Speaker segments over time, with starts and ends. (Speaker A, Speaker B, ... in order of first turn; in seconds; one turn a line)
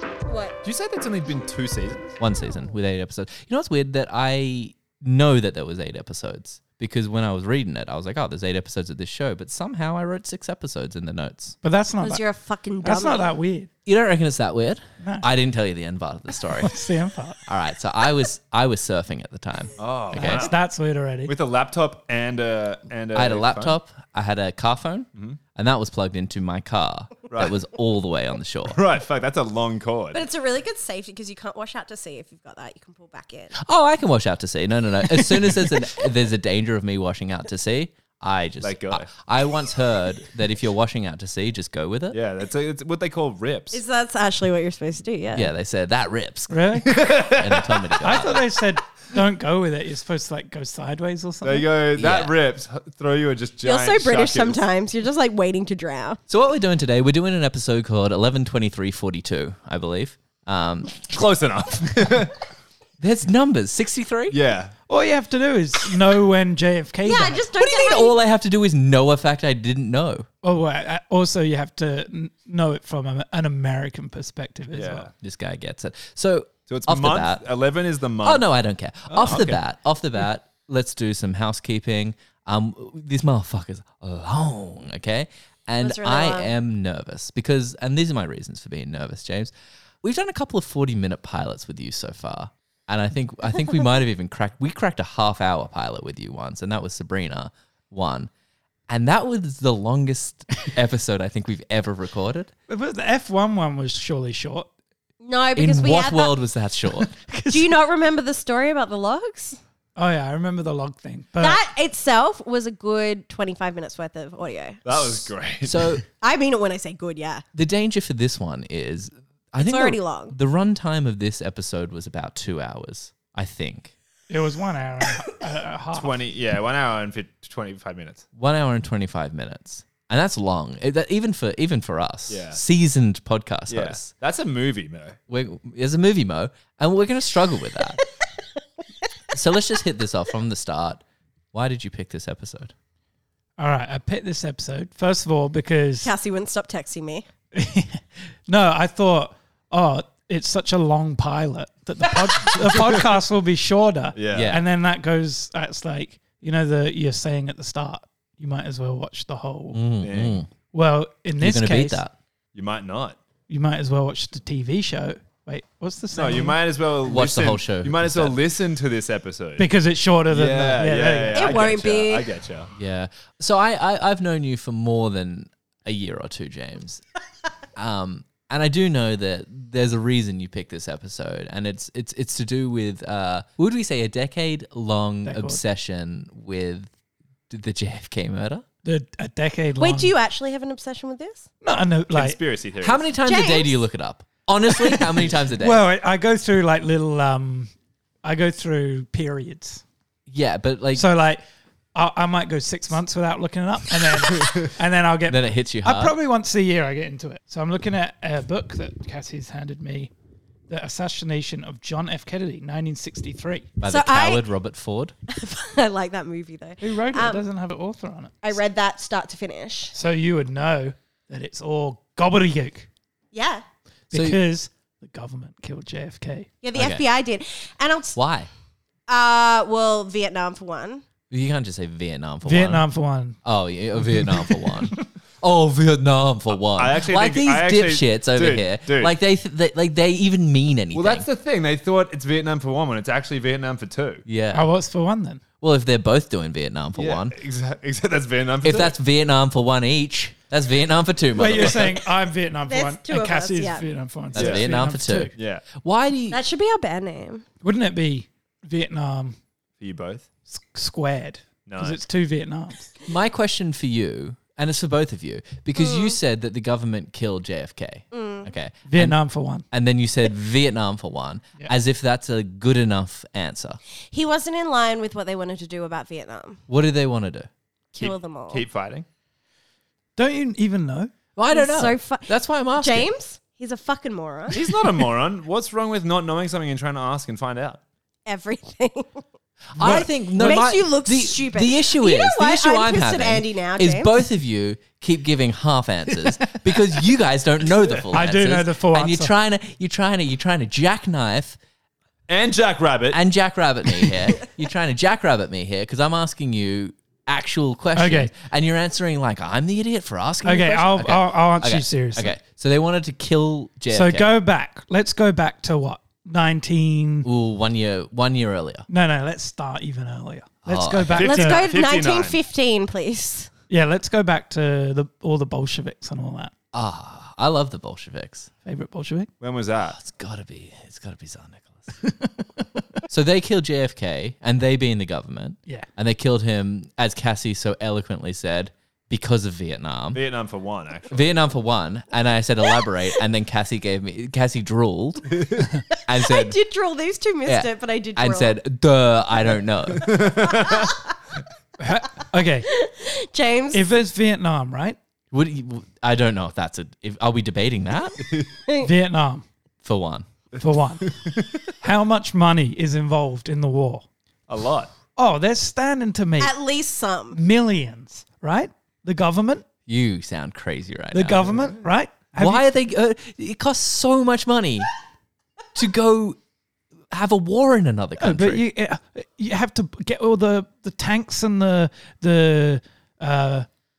Speaker A: 0.3-0.6
Speaker B: 0.6-2.2
Speaker C: 2.2-11.6
Speaker D: 11.6-12.2
Speaker A: 12.0-13.3
Speaker D: 12.8-13.7
Speaker C: 13.8-16.7
Speaker D: 16.6-17.4
Speaker C: 17.4-20.5
Speaker B: 19.8-20.6
Speaker D: 20.1-21.3
Speaker B: 21.3-23.8
Speaker C: 23.1-28.8
Speaker B: 28.7-30.2
Speaker A: 30.1-33.5
Speaker C: 33.5-42.2
Speaker B: 38.6-39.1
Speaker B: 42.1-43.8
Speaker A: 43.7-45.5
Speaker C: 45.3-48.4
Speaker D: 46.5-46.9
Speaker B: 46.8-48.4
Speaker D: 48.0-51.7
Speaker B: 51.4-54.6
Speaker C: 52.0-52.3
Speaker A: 53.6-56.2
Speaker C: 56.3-61.0
Speaker B: 60.9-62.4
Speaker C: 63.0-64.4
Speaker B: 64.3-64.7
Speaker D: 64.9-67.4
Speaker A: 67.0-68.2
Speaker C: 67.6-70.3
Speaker D: 70.4-75.1
Speaker B: 74.7-75.1
Speaker C: 75.2-77.4
Speaker B: 76.7-78.4
Speaker C: 78.2-98.3
Speaker D: 79.1-79.6
Speaker A: 85.8-86.5
Speaker C: 98.9-102.5
Speaker D: 102.7-104.7
Speaker A: 105.2-106.3
Speaker C: 105.5-107.1
Speaker D: 107.0-107.7
Speaker A: 107.5-109.6
Speaker D: 110.0-111.6
Speaker A: 111.4-114.8
Speaker B: 114.8-116.0
Speaker C: 115.6-116.0
Speaker A: 116.2-117.4
Speaker C: 117.5-123.9
Speaker A: 119.6-120.3
Speaker D: 124.3-126.2
Speaker B: 125.9-128.2
Speaker C: 128.3-134.1
Speaker B: 132.3-132.6
Speaker B: 133.7-135.2
Speaker C: 135.3-138.0
Speaker C: 139.3-142.7
Speaker D: 143.6-146.1
Speaker A: 146.0-147.2
Speaker D: 147.5-159.8
Speaker B: 152.4-153.1
Speaker B: 154.1-154.6
Speaker C: 154.3-154.6
Speaker C: 159.7-160.5
Speaker B: 160.0-160.4
Speaker D: 160.7-162.0
Speaker C: 161.4-162.1
Speaker B: 162.5-163.2
Speaker D: 163.5-166.6
Speaker B: 166.1-169.7
Speaker C: 167.0-168.3
Speaker D: 169.6-171.6
Speaker B: 170.3-172.7
Speaker A: 171.3-172.3
Speaker C: 172.7-177.0
Speaker C: 177.8-186.9
Speaker D: 185.2-185.6
Speaker C: 187.5-188.6
Speaker D: 188.8-190.1
Speaker A: 189.8-191.5
Speaker D: 191.6-192.4
Speaker B: 192.1-193.0
Speaker C: 192.8-195.8
Speaker A: 193.2-193.8
Speaker D: 194.9-197.7
Speaker D: 198.2-199.8
Speaker C: 200.3-201.1
Speaker D: 200.9-201.4
Speaker D: 201.9-210.1
Speaker C: 205.3-206.1
Speaker D: 210.7-213.7
Speaker C: 213.8-215.1
Speaker A: 213.8-214.4
Speaker A: 215.3-217.4
Speaker D: 216.8-218.6
Speaker A: 218.4-219.9
Speaker D: 219.9-222.9
Speaker A: 223.3-223.6
Speaker C: 224.1-224.4
Speaker D: 224.1-226.5
Speaker A: 226.6-228.2
Speaker C: 226.7-227.0
Speaker C: 228.1-228.5
Speaker A: 229.1-231.0
Speaker C: 231.3-232.8
Speaker D: 232.4-233.4
Speaker C: 233.4-241.3
Speaker D: 234.0-235.0
Speaker B: 236.5-239.1
Speaker B: 240.9-244.2
Speaker C: 244.2-244.7
Speaker D: 244.5-245.4
Speaker C: 245.6-247.3
Speaker B: 247.0-248.9
Speaker C: 248.6-252.0
Speaker D: 251.3-255.3
Speaker A: 252.7-253.8
Speaker C: 254.3-256.4
Speaker B: 254.3-254.7
Speaker B: 255.3-255.6
Speaker A: 256.3-257.4
Speaker D: 257.6-259.4
Speaker B: 259.8-260.3
Speaker D: 260.5-262.9
Speaker B: 261.6-262.0
Speaker C: 263.0-269.2
Speaker A: 265.8-266.2
Speaker A: 268.1-268.5
Speaker D: 268.9-269.6
Speaker C: 269.7-273.8
Speaker A: 274.1-276.6
Speaker C: 276.7-277.5
Speaker A: 277.9-278.6
Speaker B: 278.0-279.1
Speaker D: 280.2-281.1
Speaker C: 281.4-283.1
Speaker A: 281.5-284.6
Speaker B: 284.5-287.8
Speaker A: 288.2-289.2
Speaker C: 289.8-301.6
Speaker D: 289.8-290.1
Speaker A: 289.9-294.3
Speaker D: 298.1-299.3
Speaker B: 302.3-303.2
Speaker C: 303.1-314.3
Speaker D: 307.9-308.3
Speaker D: 310.4-312.3
Speaker D: 313.9-317.3
Speaker C: 317.2-318.9
Speaker D: 318.9-321.6
Speaker C: 320.6-321.3
Speaker B: 321.1-322.4
Speaker A: 321.2-323.5
Speaker D: 323.7-326.5
Speaker C: 326.7-328.5
Speaker D: 328.6-329.3
Speaker B: 329.4-330.0
Speaker C: 329.9-331.9
Speaker D: 332.0-332.3
Speaker C: 333.1-340.2
Speaker B: 340.1-341.4
Speaker C: 341.1-346.6
Speaker B: 345.3-345.6
Speaker A: 345.9-348.6
Speaker C: 347.4-350.3
Speaker B: 350.0-350.9
Speaker A: 350.1-351.1
Speaker D: 351.8-352.7
Speaker A: 352.6-353.8
Speaker D: 353.7-355.0
Speaker C: 355.3-358.2
Speaker D: 358.8-359.4
Speaker C: 359.8-360.3
Speaker D: 360.6-361.1
Speaker B: 361.0-361.6
Speaker D: 361.8-364.1
Speaker B: 364.5-364.9
Speaker D: 365.1-366.5
Speaker A: 366.4-367.4
Speaker D: 367.3-369.6
Speaker C: 369.9-371.5
Speaker D: 371.1-372.6
Speaker C: 372.4-374.9
Speaker C: 375.7-376.4
Speaker C: 377.1-378.6
Speaker D: 378.2-383.7